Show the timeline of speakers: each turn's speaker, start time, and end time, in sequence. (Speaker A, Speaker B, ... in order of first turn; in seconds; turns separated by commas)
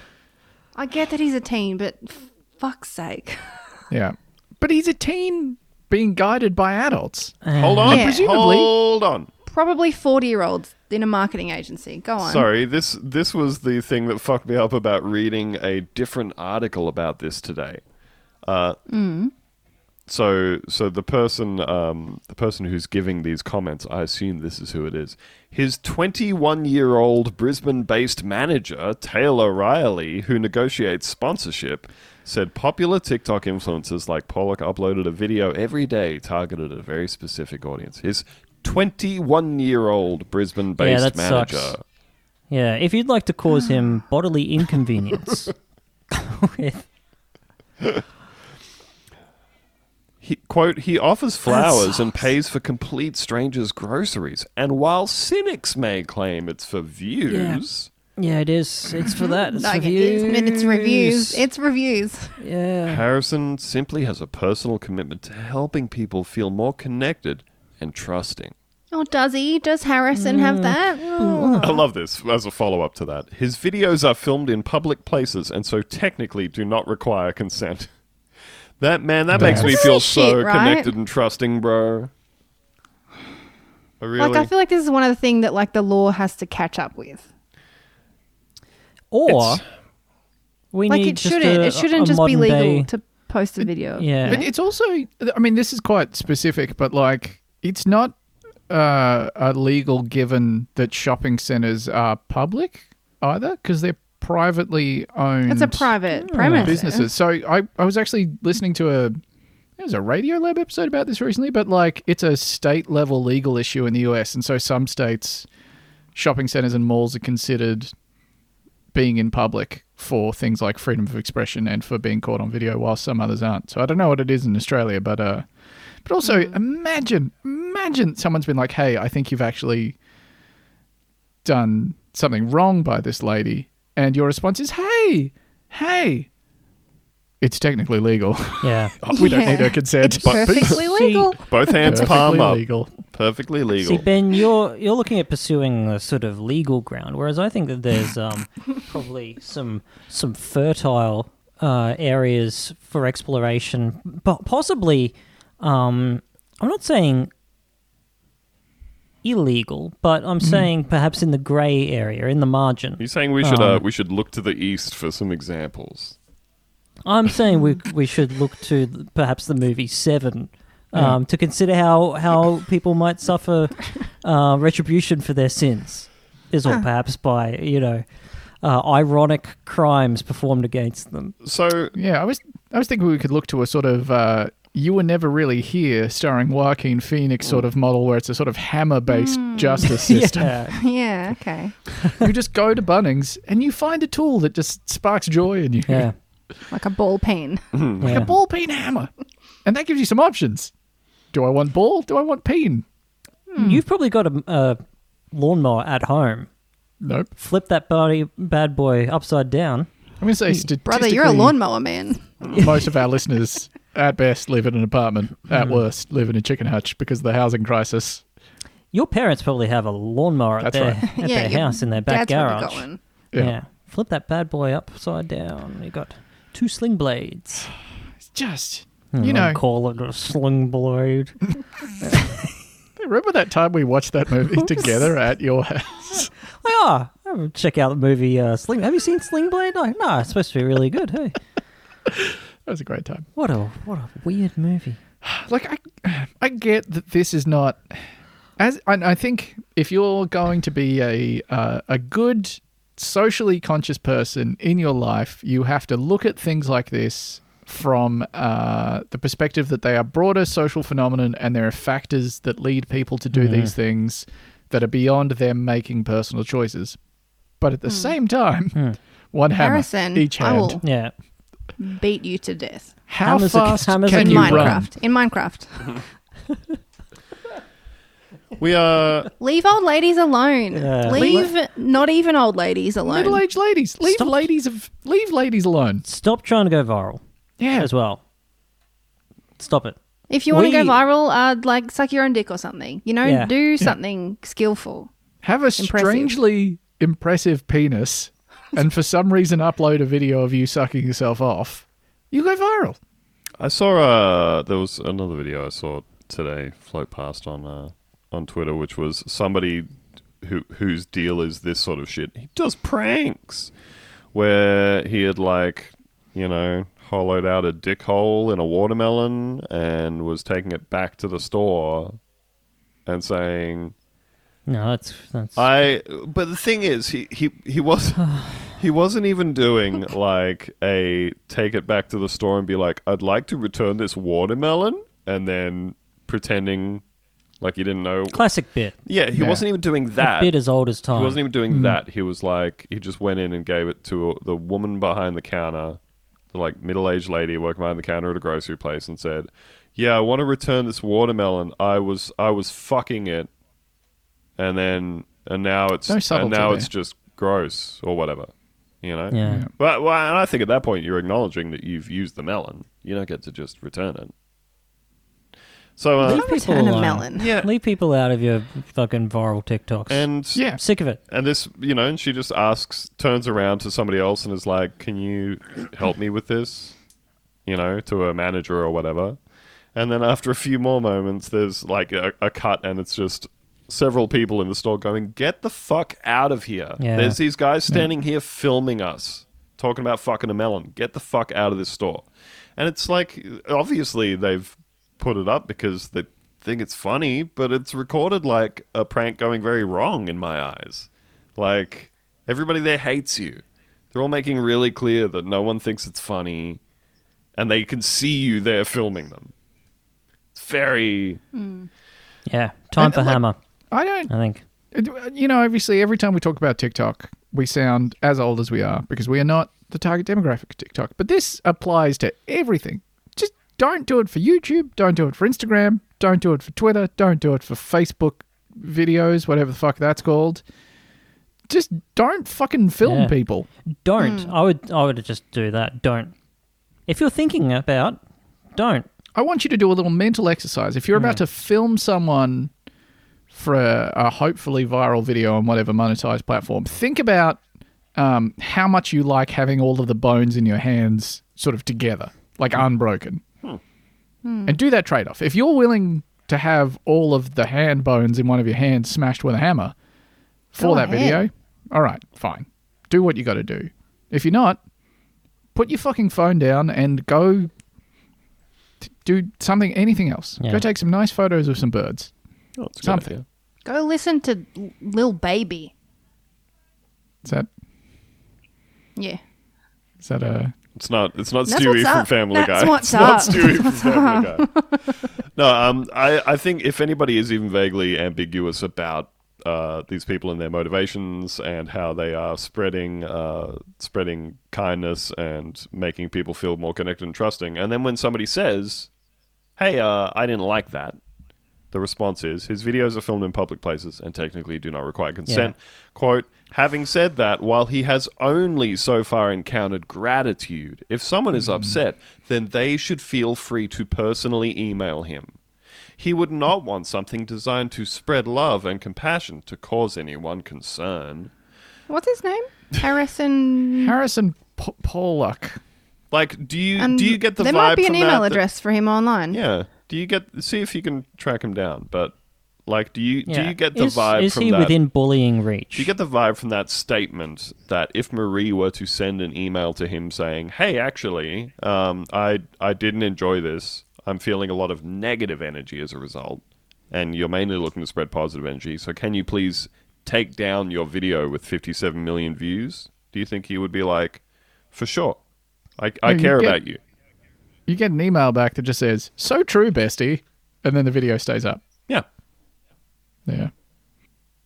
Speaker A: 0.7-3.8, Speaker B: 3.9-8.7, Speaker C: 7.4-8.0, Speaker D: 7.6-9.3, Speaker A: 7.9-8.2, Speaker A: 9.4-12.5, Speaker D: 12.2-17.8, Speaker D: 18.4-18.8, Speaker A: 18.9-19.3, Speaker D: 20.1-41.8, Speaker C: 40.8-41.8, Speaker C: 42.5-45.5, Speaker C: 46.1-46.9, Speaker D: 50.2-57.9, Speaker A: 51.5-52.2, Speaker C: 57.3-57.6, Speaker C: 58.2-61.4, Speaker A: 59.0-62.4, Speaker C: 62.4-63.0, Speaker D: 62.9-68.5, Speaker A: 68.9-71.8, Speaker C: 70.1-71.7, Speaker D: 71.6-77.9, Speaker D: 78.8-82.1, Speaker B: 79.3-79.9, Speaker A: 79.4-80.9, Speaker D: 84.0-84.5, Speaker A: 84.2-87.2, Speaker C: 89.1-89.6, Speaker D: 89.3-89.5, Speaker C: 90.7-92.9, Speaker A: 90.9-94.4, Speaker C: 94.0-94.4, Speaker B: 94.2-98.2, Speaker B: 98.7-106.0, Speaker A: 105.5-107.1, Speaker C: 106.2-106.8, Speaker B: 106.6-109.2, Speaker B: 109.8-115.5, Speaker B: 116.1-117.9, Speaker B: 118.9-125.5, Speaker B: 126.0-130.0, Speaker A: 126.2-126.5, Speaker B: 131.4-136.3, Speaker B: 137.4-140.8, Speaker C: 138.6-138.9, Speaker A: 139.1-142.1, Speaker D: 140.2-140.7, Speaker C: 140.7-141.3, Speaker D: 141.4-144.0, Speaker B: 141.8-142.9, Speaker C: 143.8-157.3, Speaker C: 159.2-163.8, Speaker B: 160.4-160.7, Speaker D: 163.0-166.2, Speaker C: 167.0-178.0, Speaker B: 170.9-171.2, Speaker C: 178.6-181.3, Speaker D: 181.4-181.9, Speaker B: 181.9-190.6, Speaker A: 189.1-190.1, Speaker C: 189.8-190.8, Speaker A: 190.8-191.8, Speaker B: 192.2-196.1, Speaker C: 195.9-196.1, Speaker A: 196.7-197.6, Speaker D: 197.7-198.0, Speaker B: 198.0-199.1, Speaker C: 198.0-198.3, Speaker B: 199.6-200.7, Speaker B: 201.3-202.8, Speaker A: 203.5-203.8, Speaker C: 203.6-204.8, Speaker C: 205.3-206.5, Speaker B: 207.0-207.3, Speaker C: 207.4-209.9, Speaker B: 210.2-211.6, Speaker A: 210.8-212.3, Speaker B: 212.5-218.2, Speaker C: 215.5-215.8, Speaker C: 218.9-227.7, Speaker B: 220.6-221.0, Speaker A: 221.0-223.0, Speaker B: 228.2-229.6, Speaker C: 229.1-231.4, Speaker C: 232.0-232.4, Speaker B: 233.0-236.3, Speaker C: 236.5-241.4, Speaker B: 242.1-243.2, Speaker C: 243.3-245.0, Speaker B: 245.2-248.0, Speaker B: 248.6-267.0, Speaker C: 263.3-263.7, Speaker B: 267.6-268.8, Speaker A: 267.9-268.1, Speaker B: 269.3-270.8, Speaker A: 269.6-270.8, Speaker C: 270.8-271.1, Speaker A: 271.8-272.9, Speaker B: 273.1-274.9, Speaker C: 273.2-274.9, Speaker A: 274.1-276.0, Speaker D: 278.6-279.3, Speaker A: 279.4-283.4, Speaker C: 280.7-281.5, Speaker B: 283.1-286.0, Speaker C: 286.0-287.2, Speaker B: 287.6-287.9, Speaker C: 287.8-288.2, Speaker C: 289.6-289.9, Speaker A: 290.3-295.1, Speaker C: 290.5-291.0, Speaker C: 293.2-293.5, Speaker B: 295.4-303.0, Speaker A: 295.8-296.3, Speaker D: 303.6-309.9, Speaker D: 310.4-313.7, Speaker D: 314.3-322.2, Speaker D: 323.1-323.9, Speaker C: 324.7-325.6, Speaker D: 325.6-337.0, Speaker C: 328.2-328.7, Speaker D: 337.6-338.4, Speaker C: 338.3-338.9, Speaker D: 339.0-340.5, Speaker B: 339.3-339.6, Speaker C: 340.2-341.4, Speaker D: 341.1-346.0, Speaker B: 341.7-342.0, Speaker D: 346.5-353.5, Speaker D: 354.6-358.5, Speaker B: 356.1-356.9, Speaker D: 359.0-364.3, Speaker C: 359.3-359.6, Speaker D: 366.0-366.5, Speaker A: 366.2-367.5, Speaker C: 366.2-371.2, Speaker D: 367.3-367.7, Speaker D: 370.1-370.7, Speaker B: 370.5-370.8, Speaker D: 371.3-376.9, Speaker D: 377.6-379.4, Speaker D: 379.9-403.6, Speaker C: 387.0-387.4, Speaker D: 404.1-406.8, Speaker D: 407.6-409.5, Speaker D: 410.5-411.4, Speaker A: 411.5-411.9, Speaker C: 412.5-413.6, Speaker B: 413.0-414.3, Speaker C: 414.3-414.6, Speaker B: 414.9-430.6, Speaker B: 431.7-433.7, Speaker C: 433.0-433.3, Speaker C: 433.9-436.3, Speaker A: 434.2-434.5, Speaker C: 437.1-438.2, Speaker C: 438.7-439.1, Speaker B: 439.3-442.7, Speaker C: 441.1-441.4, Speaker B: 443.5-447.6, Speaker B: 448.1-453.4, Speaker A: 454.4-454.8, Speaker B: 454.7-459.9, Speaker B: 460.7-464.8, Speaker A: 460.8-461.4, Speaker B: 465.7-467.7, Speaker B: 469.0-472.3, Speaker C: 470.6-470.8, Speaker D: 472.8-473.4, Speaker B: 473.0-473.3, Speaker A: 473.8-475.9, Speaker A: 479.1-479.4, Speaker B: 480.2-480.7, Speaker D: 480.9-484.8, Speaker A: 481.6-485.1, Speaker D: 485.6-499.1, Speaker D: 499.8-501.2, Speaker D: 501.9-515.5, Speaker C: 505.5-505.7, Speaker D: 516.2-521.5, Speaker A: 522.1-524.1, Speaker B: 524.0-525.8, Speaker D: 526.3-528.6, Speaker A: 527.0-529.6, Speaker D: 529.5-532.3, Speaker D: 532.9-534.9, Speaker C: 533.5-536.1, Speaker D: 535.9-554.4, Speaker D: 554.9-555.4, Speaker D: 556.0-557.0, Speaker B: 556.2-556.8, Speaker B: 557.9-561.8, Speaker B: 563.5-563.7